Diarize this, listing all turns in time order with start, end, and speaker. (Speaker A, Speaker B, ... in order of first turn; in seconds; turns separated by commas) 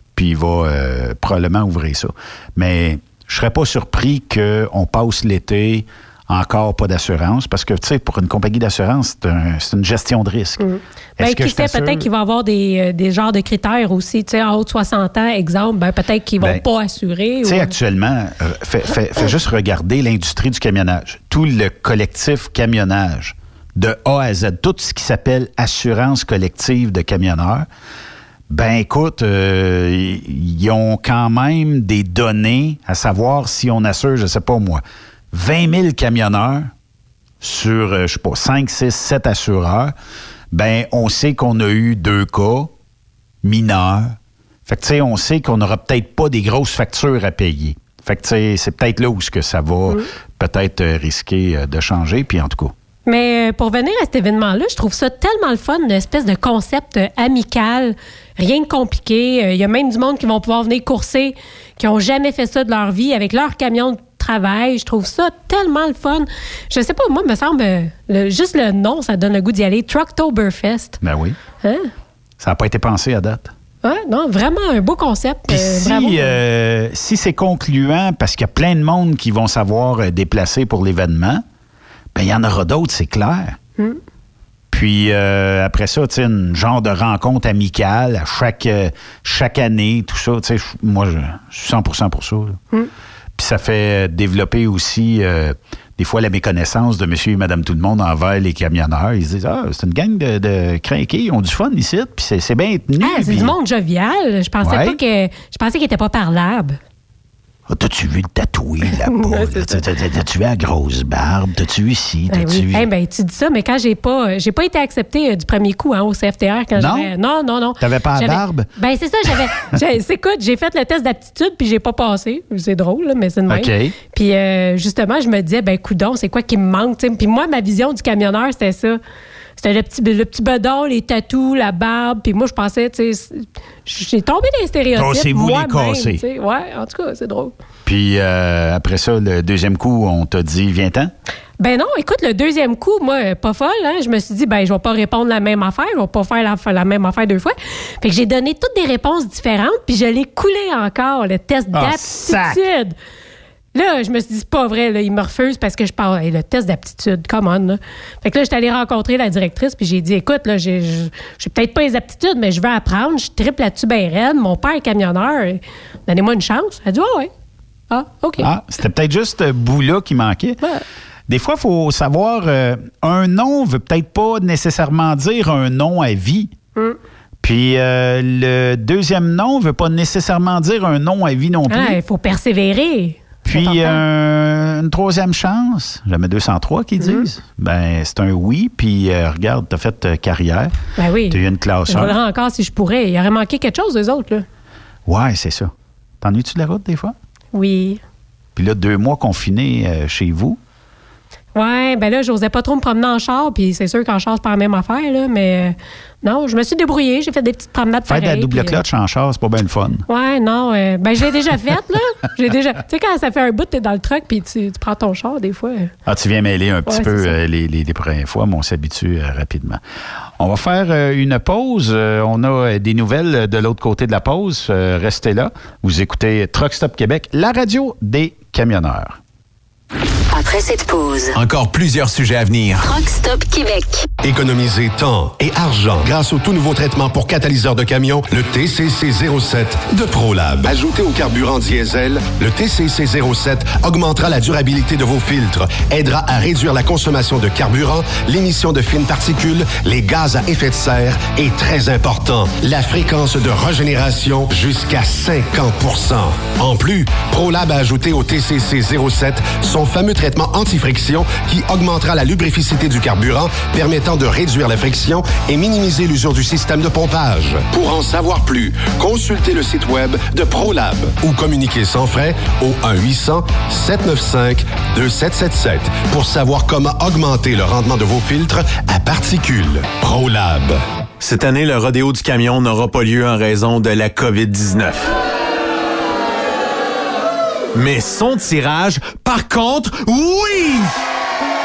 Speaker A: 0.1-10.6, Speaker B: 10.6-17.7, Speaker A: 11.2-12.1, Speaker A: 17.4-27.7, Speaker A: 28.5-36.7, Speaker A: 37.4-39.9, Speaker A: 40.5-42.7, Speaker A: 43.4-52.7, Speaker B: 53.0-71.0, Speaker A: 71.0-71.4, Speaker B: 71.6-71.9, Speaker A: 72.4-73.5, Speaker B: 73.8-76.4, Speaker A: 75.5-81.4, Speaker A: 82.1-83.6, Speaker A: 84.7-92.6, Speaker A: 93.3-103.5, Speaker B: 103.0-106.8, Speaker A: 104.6-105.0, Speaker A: 107.7-112.9, Speaker B: 109.0-109.8, Speaker B: 112.3-129.0, Speaker A: 116.8-117.1, Speaker A: 117.8-118.7, Speaker A: 123.5-123.9, Speaker B: 129.6-137.5, Speaker A: 134.9-136.2, Speaker A: 137.8-141.1, Speaker B: 141.6-152.9, Speaker A: 151.7-152.6, Speaker B: 153.7-167.3, Speaker B: 167.9-168.5, Speaker A: 168.4-170.6, Speaker A: 171.3-176.5, Speaker A: 177.4-182.0, Speaker B: 181.7-184.0, Speaker A: 183.4-190.7, Speaker B: 187.0-187.3, Speaker B: 191.0-194.4, Speaker A: 191.3-192.2, Speaker A: 195.1-197.1, Speaker B: 197.5-198.0, Speaker A: 198.6-200.6, Speaker B: 201.5-208.8, Speaker A: 208.1-210.0, Speaker B: 210.1-215.9, Speaker A: 216.1-219.8, Speaker B: 216.9-217.3, Speaker A: 220.4-229.2, Speaker C: 230.3-231.3, Speaker D: 231.3-232.9, Speaker C: 232.8-234.0, Speaker E: 234.2-280.8, Speaker D: 281.2-285.1, Speaker D: 287.7-290.9